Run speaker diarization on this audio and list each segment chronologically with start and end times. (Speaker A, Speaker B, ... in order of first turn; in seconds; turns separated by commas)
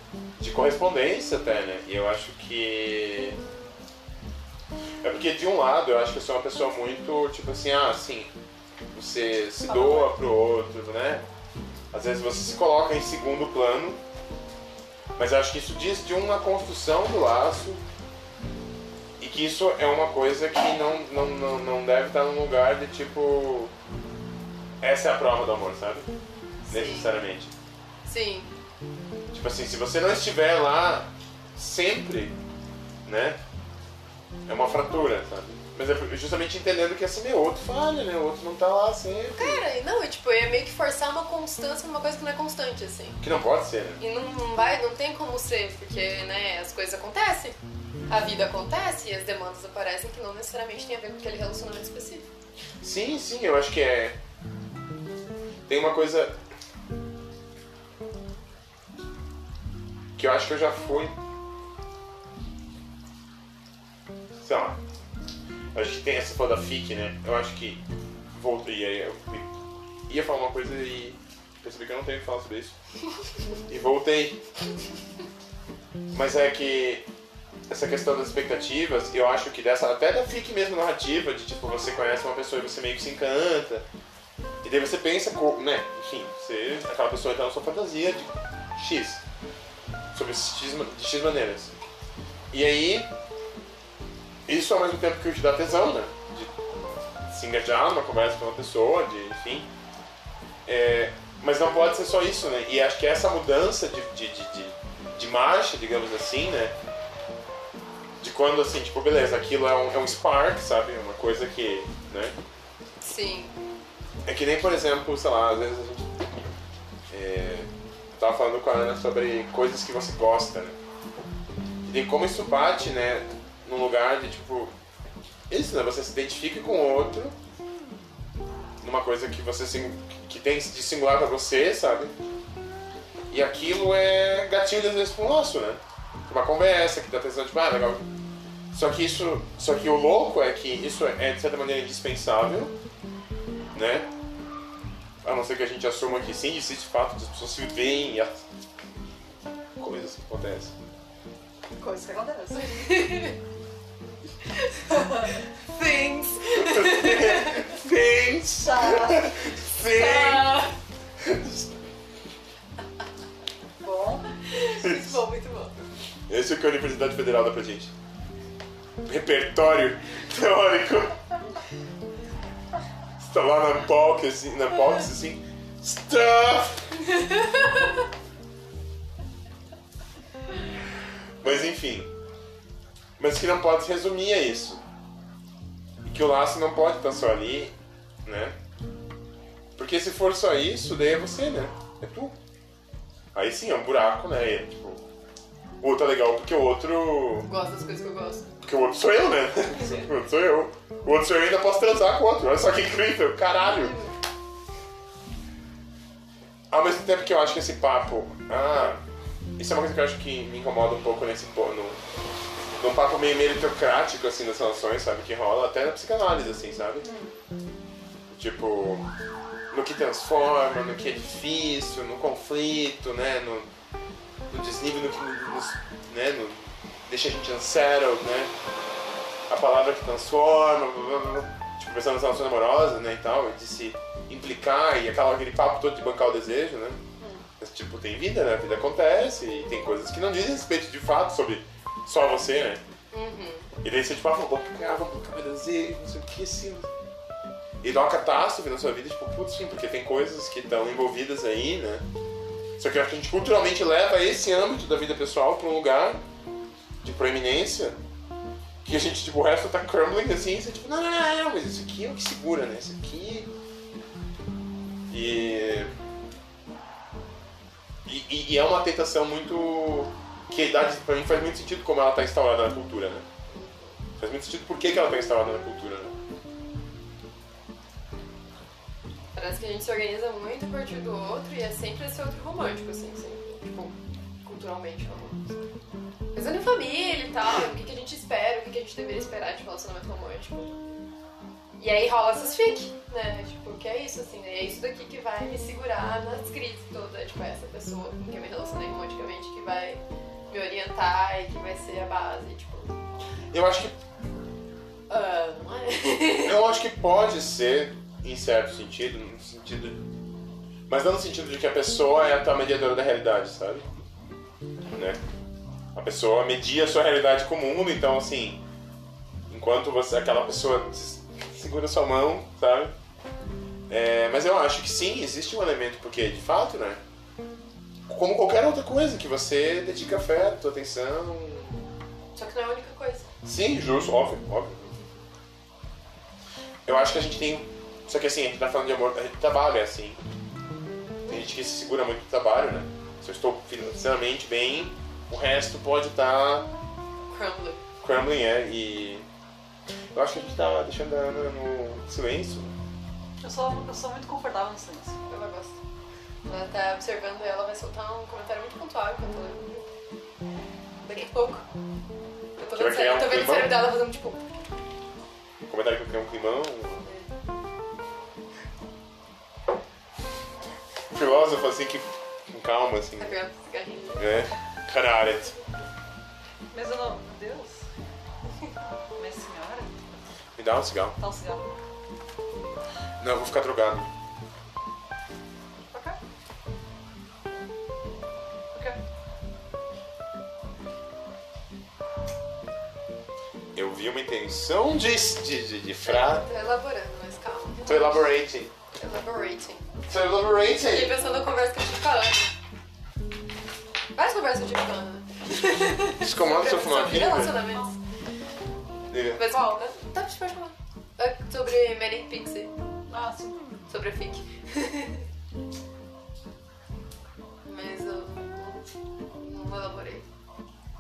Speaker A: 0.4-3.4, Speaker A: 5.0-8.3, Speaker A: 8.9-11.2, Speaker B: 9.7-10.1, Speaker A: 11.9-14.0, Speaker A: 15.2-17.8, Speaker A: 19.2-23.7, Speaker A: 24.8-26.1, Speaker C: 26.6-27.1, Speaker A: 26.7-27.5, Speaker C: 28.1-28.5, Speaker A: 29.3-32.4, Speaker A: 33.1-33.4, Speaker A: 34.5-39.6, Speaker C: 39.3-43.2, Speaker A: 43.2-44.0, Speaker C: 44.0-47.6, Speaker C: 48.1-52.3, Speaker A: 52.8-54.2, Speaker A: 55.7-56.4, Speaker A: 60.2-61.2, Speaker A: 64.4-64.8, Speaker A: 65.7-67.8, Speaker A: 68.3-69.5, Speaker A: 70.1-72.8, Speaker A: 73.7-74.4, Speaker A: 76.1-77.1, Speaker A: 77.7-83.8, Speaker A: 84.6-89.2, Speaker A: 90.1-91.7, Speaker A: 92.5-93.1, Speaker A: 94.5-96.5, Speaker A: 97.3-99.7, Speaker A: 100.7-106.8, Speaker A: 108.2-112.3, Speaker C: 113.0-113.5, Speaker A: 114.3-116.3, Speaker A: 117.1-120.8, Speaker A: 121.8-124.7, Speaker A: 125.5-127.4, Speaker A: 128.8-132.2, Speaker A: 133.3-138.0, Speaker A: 138.7-142.8, Speaker A: 143.7-144.1, Speaker A: 145.2-148.4, Speaker A: 149.8-150.8, Speaker B: 151.8-153.0, Speaker C: 152.6-153.4, Speaker C: 154.5-157.7, Speaker B: 154.9-155.3, Speaker A: 156.6-160.5, Speaker B: 158.6-160.4, Speaker C: 159.9-160.8, Speaker A: 161.2-161.8, Speaker B: 163.8-164.3, Speaker C: 164.4-165.8, Speaker A: 164.8-165.2, Speaker A: 166.3-167.9, Speaker A: 169.0-171.3, Speaker A: 173.2-177.0, Speaker C: 177.2-177.9, Speaker A: 181.4-182.1, Speaker A: 183.2-184.8, Speaker A: 186.1-188.6, Speaker A: 189.8-192.3, Speaker A: 193.3-195.0, Speaker A: 195.8-197.5, Speaker C: 197.5-198.5, Speaker A: 198.6-204.0, Speaker B: 199.7-200.1, Speaker C: 203.6-204.1, Speaker A: 206.7-209.0, Speaker A: 209.6-212.0, Speaker A: 212.8-217.1, Speaker B: 217.0-217.3, Speaker A: 218.3-219.1, Speaker A: 219.7-223.7, Speaker A: 224.5-228.5, Speaker A: 229.5-237.0, Speaker A: 237.6-242.8, Speaker C: 243.1-243.7, Speaker A: 243.8-246.9, Speaker A: 247.8-252.1, Speaker A: 252.8-256.2, Speaker A: 257.0-258.0, Speaker A: 258.8-263.5, Speaker A: 265.1-265.9, Speaker A: 268.1-273.2, Speaker C: 273.5-274.0, Speaker A: 274.2-276.1, Speaker C: 279.3-285.6, Speaker C: 286.3-290.8, Speaker C: 291.8-302.9, Speaker A: 303.5-304.0, Speaker C: 305.1-306.6, Speaker A: 306.4-310.0, Speaker A: 310.9-313.9, Speaker A: 314.9-315.2, Speaker A: 315.9-318.6, Speaker A: 319.5-322.9, Speaker A: 323.9-327.0, Speaker A: 328.1-331.9, Speaker C: 332.4-333.3, Speaker A: 333.4-334.8, Speaker A: 336.9-340.2, Speaker A: 341.3-346.7, Speaker C: 347.3-347.8, Speaker A: 348.0-349.2, Speaker A: 350.1-352.8, Speaker B: 353.4-355.2, Speaker C: 355.3-355.8, Speaker C: 356.5-359.9, Speaker C: 361.0-361.6, Speaker C: 362.6-364.4, Speaker A: 362.7-363.8, Speaker A: 365.7-367.1, Speaker A: 371.1-373.4, Speaker C: 373.2-374.5, Speaker A: 374.1-375.6, Speaker B: 376.7-377.9, Speaker B: 379.2-380.0, Speaker A: 380.6-381.2, Speaker B: 381.2-381.7, Speaker A: 383.2-384.1, Speaker A: 393.8-396.4, Speaker C: 396.1-398.3, Speaker A: 397.8-398.7, Speaker C: 398.9-400.0, Speaker A: 400.1-401.2, Speaker C: 400.8-402.5, Speaker C: 404.2-408.0, Speaker A: 405.5-407.6, Speaker B: 406.8-407.9, Speaker A: 409.1-409.5, Speaker C: 409.4-412.7, Speaker B: 409.5-409.8, Speaker B: 413.1-413.7, Speaker C: 413.9-415.2, Speaker C: 417.6-420.3